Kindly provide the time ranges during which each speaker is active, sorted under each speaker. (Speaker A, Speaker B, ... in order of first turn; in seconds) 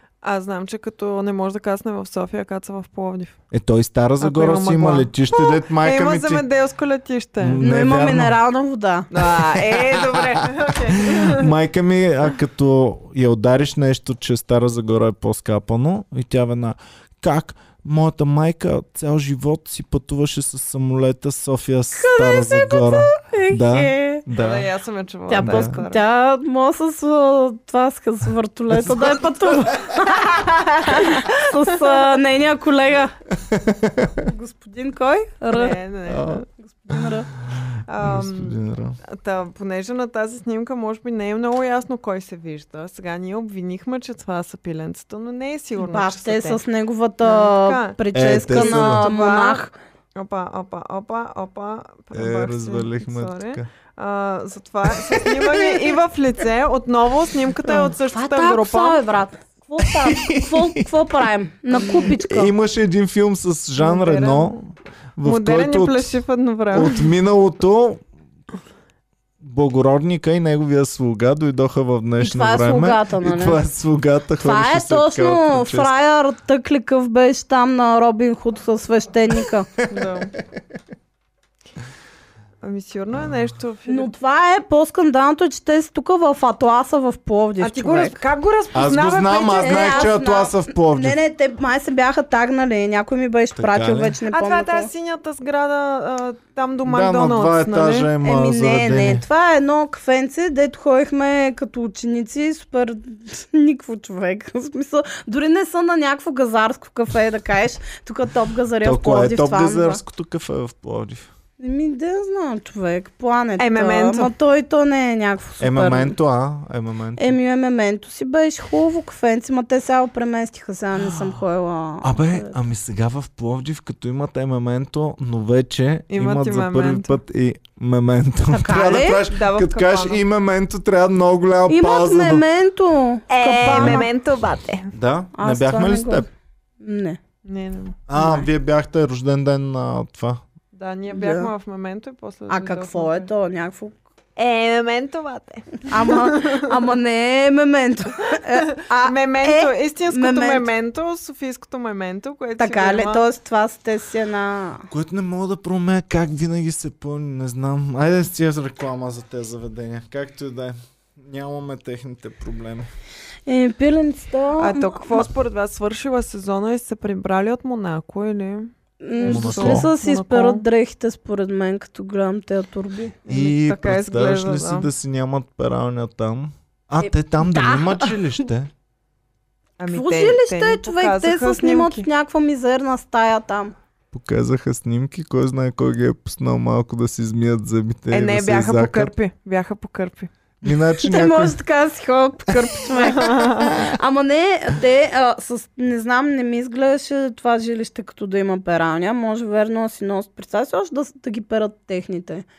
Speaker A: 0.2-3.4, 4.2-7.6, 9.1-11.5, 24.3-26.0, 30.9-31.9, 35.5-36.4, 37.9-38.6, 39.1-46.6, 47.2-59.0, 63.8-64.6, 65.2-67.1, 79.9-80.3, 82.6-84.1, 87.6-90.1, 94.3-98.1, 113.6-114.3, 126.1-127.2, 129.3-130.2, 133.3-134.9, 137.4-138.0, 140.7-143.3, 144.4-146.6, 148.5-153.2, 164.6-170.6, 173.2-174.9, 179.8-182.1, 188.1-190.3, 193.1-193.8
Speaker B: 3.5-6.4, 7.4-8.3, 9.7-24.7, 25.3-25.8, 28.7-29.2, 33.4-34.2, 36.1-36.4, 37.5-39.0, 48.1-49.1, 52.1-53.6, 55.0-55.6, 59.8-60.9, 61.8-64.6, 65.2-66.1, 66.7-68.0, 69.4-75.9, 88.7-91.2, 93.5-94.1, 96.9-99.2, 108.8-111.3, 115.6-117.4, 122.0-132.4, 133.7-134.0, 134.9-136.3, 138.1-140.4, 154.9-162.9, 169.2-169.9, 173.3-178.7, 184.1-189.1, 190.6-191.6
Speaker C: 7.6-9.1, 22.0-24.2, 25.3-33.1, 34.1-35.8, 36.6-37.3, 45.8-49.7, 57.7-62.5, 72.2-73.6, 74.4-79.7, 83.9-88.2, 89.5-94.9, 98.2-110.0, 111.6-116.2, 117.2-122.6, 128.5-129.2, 131.7-134.1, 135.3-136.3, 136.8-137.2, 138.2-138.5, 141.1-141.5, 142.5-144.0, 145.9-150.7, 152.6-154.9, 163.4-165.2, 169.0-173.2, 177.0-178.4, 179.9-183.7, 191.0-202.5